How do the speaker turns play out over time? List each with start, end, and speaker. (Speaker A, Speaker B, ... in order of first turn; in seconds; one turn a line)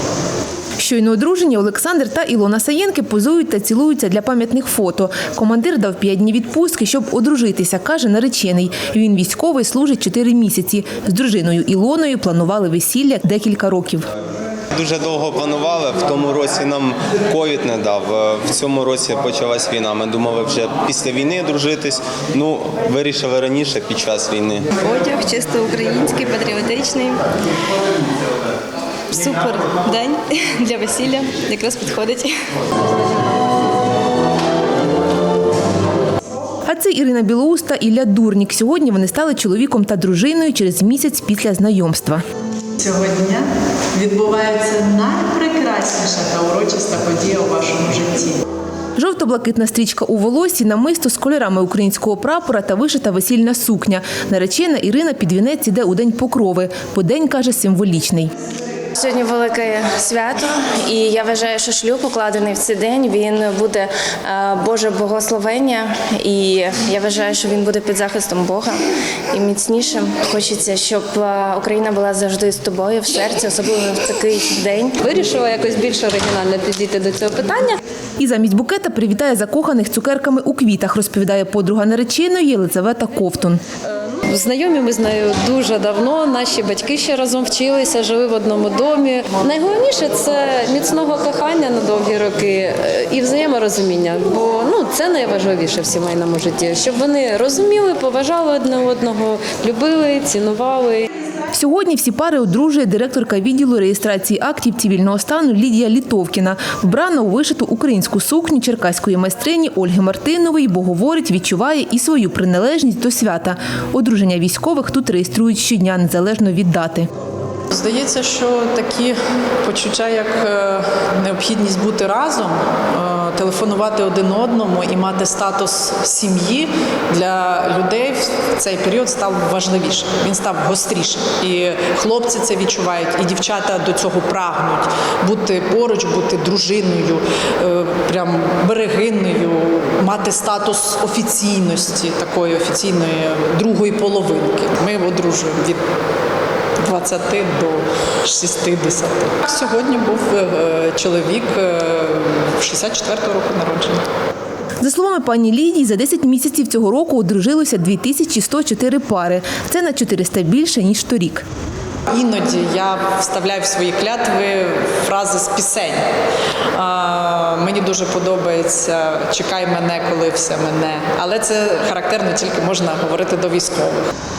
Speaker A: 0.8-14.1
Speaker B: 14.7-24.6
Speaker C: 24.8-27.2
Speaker C: 29.1-32.3
Speaker A: 36.6-42.2
Speaker D: 42.8-48.4
Speaker A: 49.0-58.3
Speaker E: 59.0-68.8
Speaker E: 69.3-75.0
Speaker F: 75.0-77.8
Speaker A: 78.2-83.6
Speaker F: 84.3-101.1
Speaker A: 101.5-117.1
Speaker D: 117.7-145.8
Speaker D: 146.8-154.0
Speaker A: 154.8-161.4
Speaker D: 162.1-166.0
Speaker D: 166.7-174.1